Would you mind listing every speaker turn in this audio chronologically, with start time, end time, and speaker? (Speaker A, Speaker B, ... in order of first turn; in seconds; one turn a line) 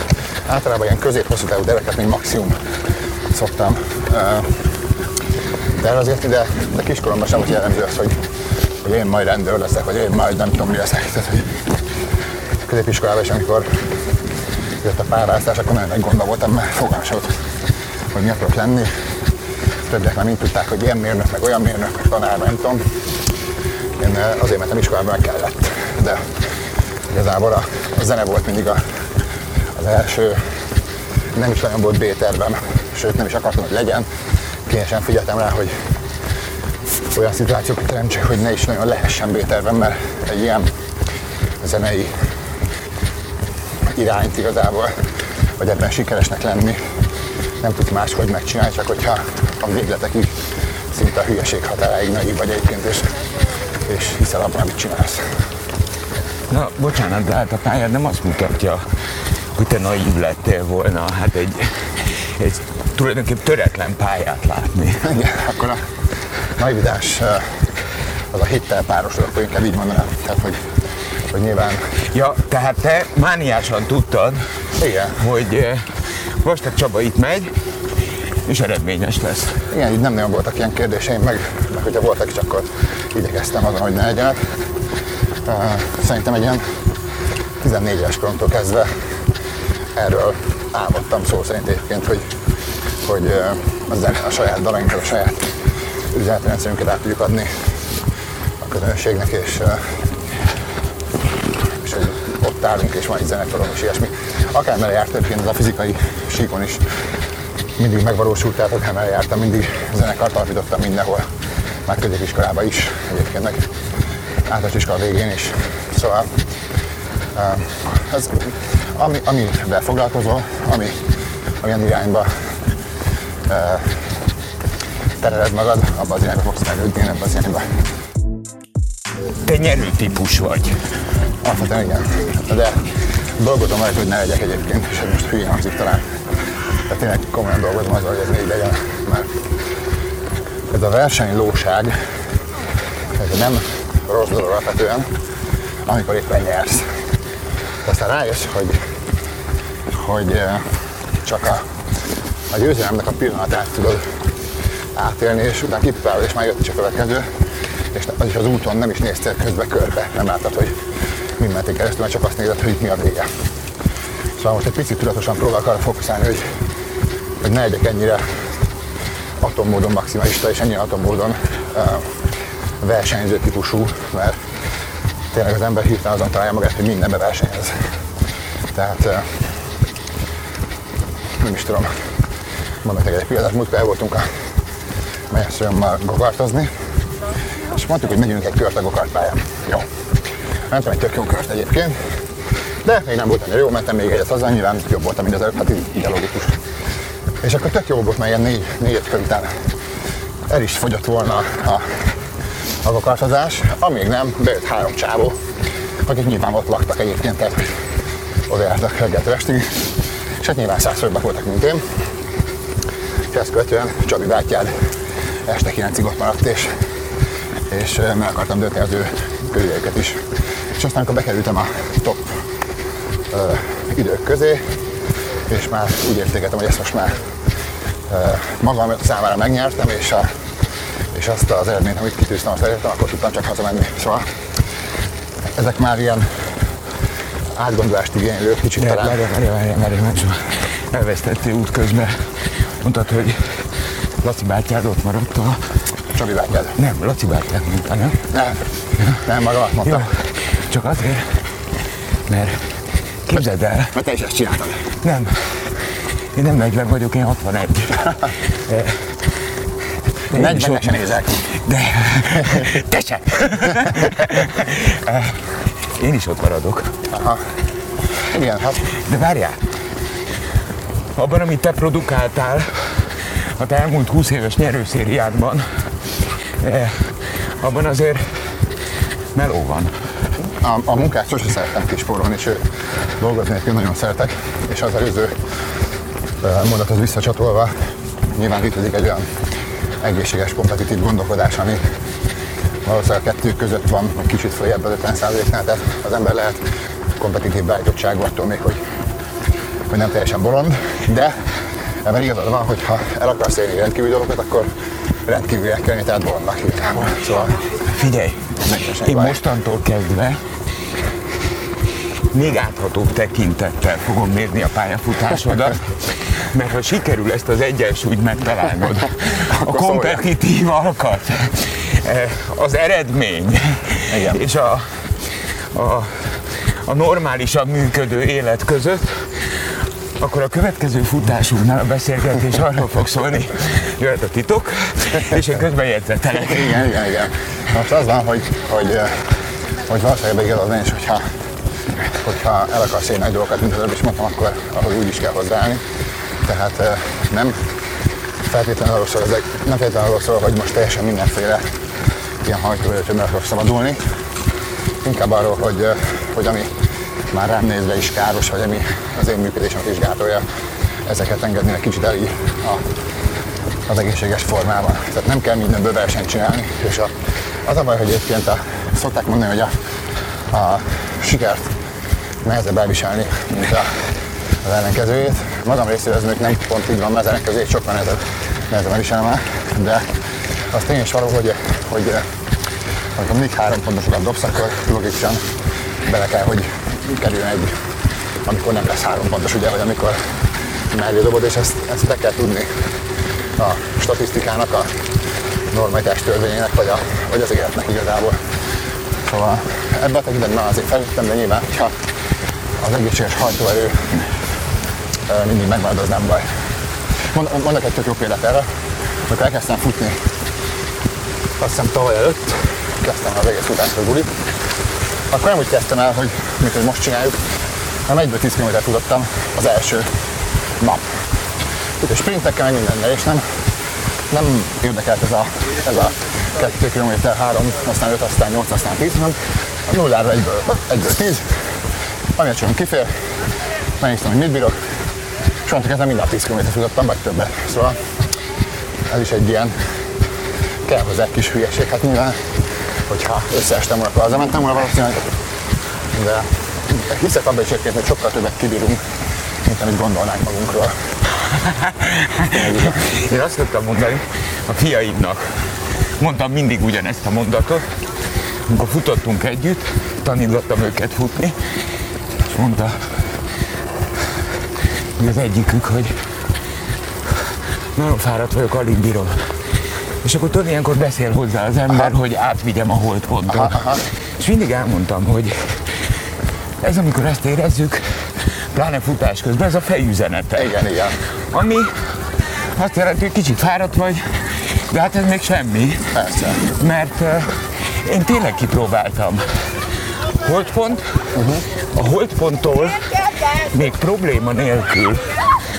Speaker A: 0.5-2.6
Speaker A: 3.3-4.5
Speaker A: 5.8-8.2
Speaker A: 8.8-11.6
Speaker A: 12.7-13.7
Speaker A: 14.8-17.4
Speaker A: 18.1-18.9
Speaker A: 19.9-22.8
Speaker A: 24.0-26.2
Speaker A: 27.1-28.8
Speaker A: 29.7-30.4
Speaker A: 31.4-34.1
Speaker A: 34.7-35.8
Speaker A: 37.1-40.7
Speaker A: 41.6-42.2
Speaker A: 43.9-44.9
Speaker A: 45.6-46.8
Speaker A: 47.6-50.4
Speaker A: 50.9-53.1
Speaker A: 53.8-55.3
Speaker B: 56.5-58.9
Speaker B: 59.5-65.1
Speaker A: 65.0-65.8
Speaker A: 66.6-67.6
Speaker A: 68.3-70.6
Speaker A: 71.3-71.9
Speaker B: 72.1-74.5
Speaker A: 74.8-75.2
Speaker B: 75.2-77.5
Speaker B: 78.5-79.6
Speaker A: 79.7-84.5
Speaker A: 85.5-86.6
Speaker A: 87.6-88.9
Speaker A: 90.0-92.3
Speaker A: 93.0-95.5
Speaker A: 96.1-97.6
Speaker A: 98.6-100.0
Speaker A: 101.8-106.8
Speaker A: 107.8-111.3
Speaker A: 111.9-113.7
Speaker A: 114.5-116.3
Speaker A: 117.3-121.0
Speaker A: 121.6-122.3
Speaker A: 123.5-124.0
Speaker A: 125.2-127.7
Speaker B: 129.4-130.8
Speaker A: 131.4-132.8
Speaker A: 133.4-136.0
Speaker A: 136.9-139.3
Speaker A: 140.7-142.0
Speaker A: 143.1-145.1
Speaker A: 145.9-146.9
Speaker A: 147.8-148.8
Speaker A: 149.9-150.6
Speaker A: 151.2-151.7
Speaker A: 152.5-154.1
Speaker A: 155.0-157.3
Speaker A: 157.9-160.8
Speaker A: 161.4-163.3
Speaker A: 164.4-166.5
Speaker A: 167.4-168.4
Speaker A: 169.4-172.1
Speaker A: 172.8-174.4
Speaker A: 175.3-177.8
Speaker A: 178.7-179.4
Speaker A: 181.4-181.9
Speaker A: 182.8-184.3
Speaker A: 185.3-186.7
Speaker A: 187.7-189.9
Speaker A: 190.7-192.1
Speaker A: 192.8-196.6
Speaker A: 197.4-199.6
Speaker A: 200.5-202.0
Speaker A: 202.8-205.4
Speaker A: 206.1-207.8
Speaker A: 208.5-209.9
Speaker A: 210.4-211.8
Speaker A: 213.3-214.7
Speaker A: 215.5-216.7
Speaker A: 217.7-220.2
Speaker A: 220.8-222.3
Speaker A: 223.3-224.6
Speaker A: 225.5-227.2
Speaker A: 228.1-230.3
Speaker A: 231.1-234.3
Speaker A: 235.6-236.4
Speaker A: 237.6-239.2
Speaker B: 238.8-243.7
Speaker B: 244.2-245.6
Speaker A: 246.1-246.8
Speaker B: 246.8-248.2
Speaker A: 248.3-248.6
Speaker A: 249.1-250.1
Speaker B: 249.9-251.3
Speaker B: 252.3-252.7
Speaker B: 253.2-253.9
Speaker A: 253.9-254.9
Speaker B: 255.0-255.7
Speaker B: 256.3-259.0
Speaker A: 260.3-261.4
Speaker B: 260.3-266.9
Speaker A: 267.1-267.4
Speaker A: 268.2-268.9
Speaker B: 268.9-269.6
Speaker B: 271.1-275.7
Speaker B: 276.6-278.3
Speaker B: 279.3-279.9
Speaker A: 280.6-282.6
Speaker A: 283.2-285.3
Speaker A: 286.4-287.8
Speaker A: 288.4-289.3
Speaker A: 290.0-291.9
Speaker A: 292.9-296.6
Speaker A: 297.2-298.8
Speaker A: 299.9-301.4
Speaker A: 302.0-304.7
Speaker A: 305.2-307.6
Speaker B: 307.8-310.4
Speaker A: 308.6-309.4
Speaker B: 312.3-336.9
Speaker A: 319.5-320.2
Speaker A: 324.1-324.4
Speaker A: 336.5-339.2
Speaker A: 339.8-341.2
Speaker A: 342.1-345.8
Speaker A: 346.4-347.6
Speaker A: 348.4-351.6
Speaker A: 352.4-354.1
Speaker A: 355.0-356.7
Speaker A: 357.3-360.4
Speaker A: 361.1-362.8
Speaker A: 363.9-369.7
Speaker A: 370.5-371.7
Speaker A: 372.4-374.1
Speaker A: 374.6-380.2
Speaker A: 380.7-382.3
Speaker A: 383.1-385.4
Speaker A: 386.0-387.8
Speaker A: 388.4-392.9
Speaker A: 393.6-395.0
Speaker A: 395.7-398.4
Speaker A: 399.2-402.0
Speaker A: 402.8-404.2
Speaker A: 405.3-406.6
Speaker A: 407.2-408.7
Speaker A: 409.3-410.2
Speaker A: 411.6-414.3
Speaker A: 415.3-420.1
Speaker A: 420.8-421.1
Speaker A: 422.0-423.6
Speaker A: 424.3-431.6
Speaker A: 432.4-433.1
Speaker A: 434.0-434.9
Speaker A: 435.6-438.0
Speaker A: 439.1-439.8
Speaker A: 440.9-442.4
Speaker A: 443.1-445.3
Speaker A: 446.1-449.0
Speaker A: 449.6-451.0
Speaker B: 451.4-457.9
Speaker A: 452.5-453.1
Speaker B: 458.7-461.7
Speaker B: 462.5-463.0
Speaker B: 465.2-466.2
Speaker B: 467.9-469.6
Speaker B: 470.2-476.1
Speaker A: 473.5-474.0
Speaker B: 476.8-480.8
Speaker A: 480.6-481.2
Speaker B: 481.5-491.2
Speaker A: 486.1-486.7
Speaker A: 491.3-491.6
Speaker B: 491.9-495.5